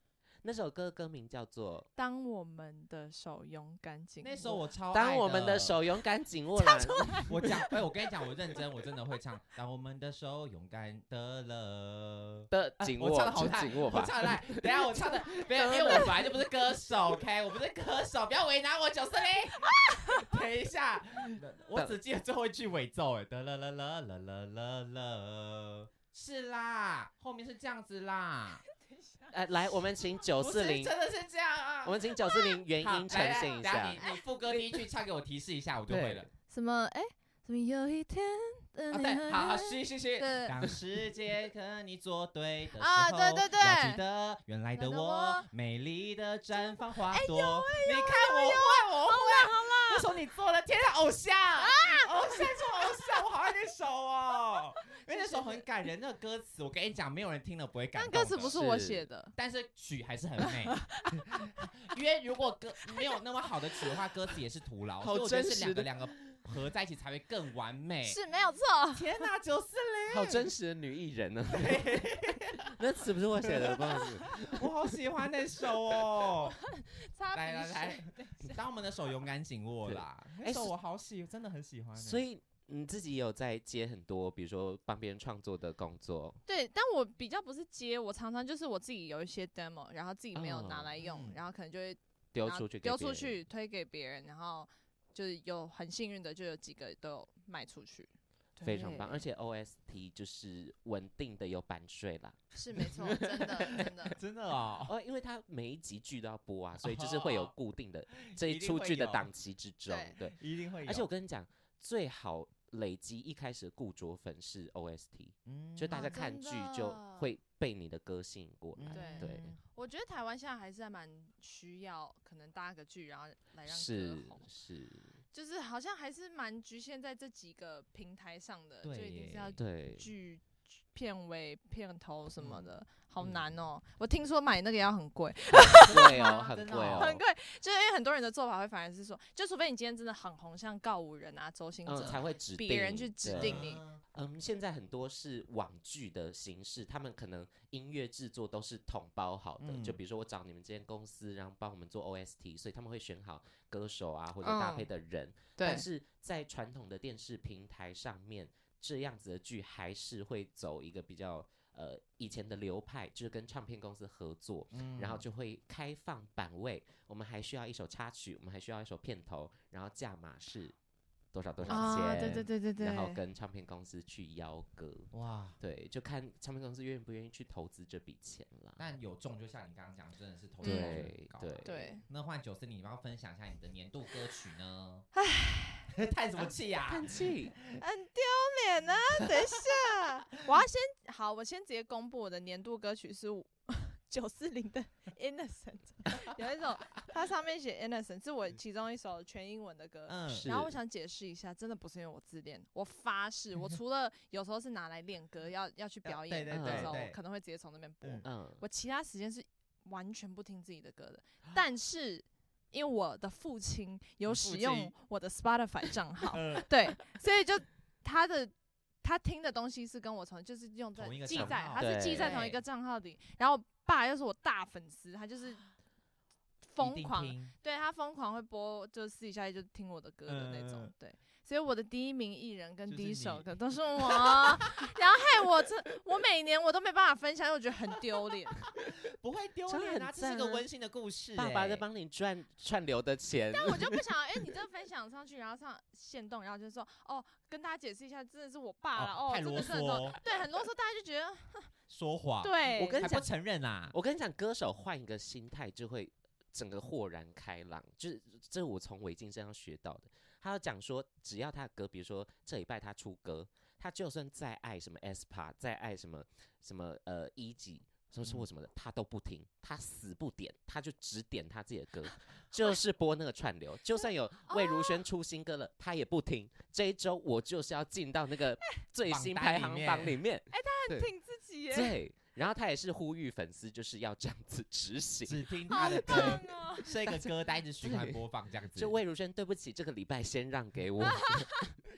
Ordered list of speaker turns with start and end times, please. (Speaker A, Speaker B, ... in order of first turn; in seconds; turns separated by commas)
Speaker A: 0.4-1.9, Speaker B: 2.0-4.6, Speaker C: 4.2-5.9, Speaker A: 4.9-7.7, Speaker B: 6.6-7.5, Speaker C: 7.3-28.6, Speaker A: 12.5-16.4, Speaker B: 19.7-20.2, Speaker A: 21.3-22.0, Speaker B: 28.7-30.2, Speaker A: 29.3-30.9, Speaker C: 30.4-36.3, Speaker A: 31.9-34.8, Speaker B: 32.3-32.6, Speaker A: 35.9-36.3, Speaker B: 36.5-40.6, Speaker C: 38.9-58.6, Speaker B: 42.8-44.0, Speaker B: 44.7-45.5, Speaker B: 46.6-50.1, Speaker B: 51.6-53.2, Speaker B: 55.0-55.6, Speaker B: 57.9-59.3, Speaker A: 58.4-59.1, Speaker C: 59.3-68.2, Speaker B: 60.4-61.2, Speaker A: 65.0-66.4, Speaker B: 68.0-69.2, Speaker C: 68.9-70.5, Speaker A: 70.1-74.7, Speaker C: 71.5-76.6, Speaker A: 75.7-76.0, Speaker B: 76.6-78.6, Speaker C: 77.3-82.2, Speaker A: 79.9-80.7, Speaker A: 82.0-86.4, Speaker B: 86.5-99.3, Speaker A: 90.3-90.9, Speaker C: 91.0-91.4, Speaker A: 92.3-93.4, Speaker A: 98.6-103.9, Speaker B: 102.5-104.2, Speaker C: 103.7-104.9, Speaker A: 104.8-119.6, Speaker C: 106.8-107.5, Speaker C: 108.2-109.3, Speaker B: 109.9-110.2, Speaker C: 110.3-111.1, Speaker C: 115.5-116.2, Speaker B: 115.9-117.3, Speaker C: 118.8-119.6, Speaker B: 118.9-124.5, Speaker A: 123.7-125.2, Speaker B: 125.3-143.8, Speaker C: 128.8-129.6, Speaker A: 129.6-130.1, Speaker A: 135.8-137.2, Speaker C: 135.9-137.2, Speaker A: 141.9-170.8, Speaker C: 143.3-144.0, Speaker C: 149.6-150.0, Speaker B: 154.4-154.9, Speaker B: 155.6-155.8, Speaker C: 164.7-165.2, Speaker A: 171.3-178.9, Speaker C: 171.6-172.5, Speaker B: 171.7-173.2, Speaker C: 175.1-175.6, Speaker C: 178.8-185.1, Speaker A: 180.6-181.9, Speaker B: 180.6-181.1, Speaker B: 181.6-182.0, Speaker B: 185.2-185.9, Speaker C: 185.9-187.8, Speaker A: 186.9-187.6, Speaker B: 187.8-225.7, Speaker C: 200.1-200.5, Speaker A: 200.3-200.7, Speaker C: 206.1-207.2, Speaker A: 206.5-207.0, Speaker A: 208.2-208.6, Speaker C: 214.3-214.9, Speaker C: 216.3-216.7, Speaker C: 221.0-222.6, Speaker A: 221.3-222.6, Speaker B: 226.6-238.6, Speaker C: 226.8-227.5, Speaker C: 230.3-230.9, Speaker C: 232.9-234.9, Speaker C: 238.8-241.8, Speaker A: 239.7-240.7, Speaker A: 241.4-244.0, Speaker B: 243.5-251.7, Speaker C: 249.0-250.2, Speaker C: 251.9-254.0, Speaker B: 252.4-253.1, Speaker A: 252.8-253.3, Speaker A: 253.9-281.1, Speaker B: 274.0-275.0, Speaker C: 279.1-280.2, Speaker B: 280.5-282.0, Speaker A: 281.7-286.4, Speaker C: 285.2-289.0, Speaker B: 285.7-286.9, Speaker A: 287.8-288.2, Speaker A: 288.7-291.9, Speaker B: 291.0-291.6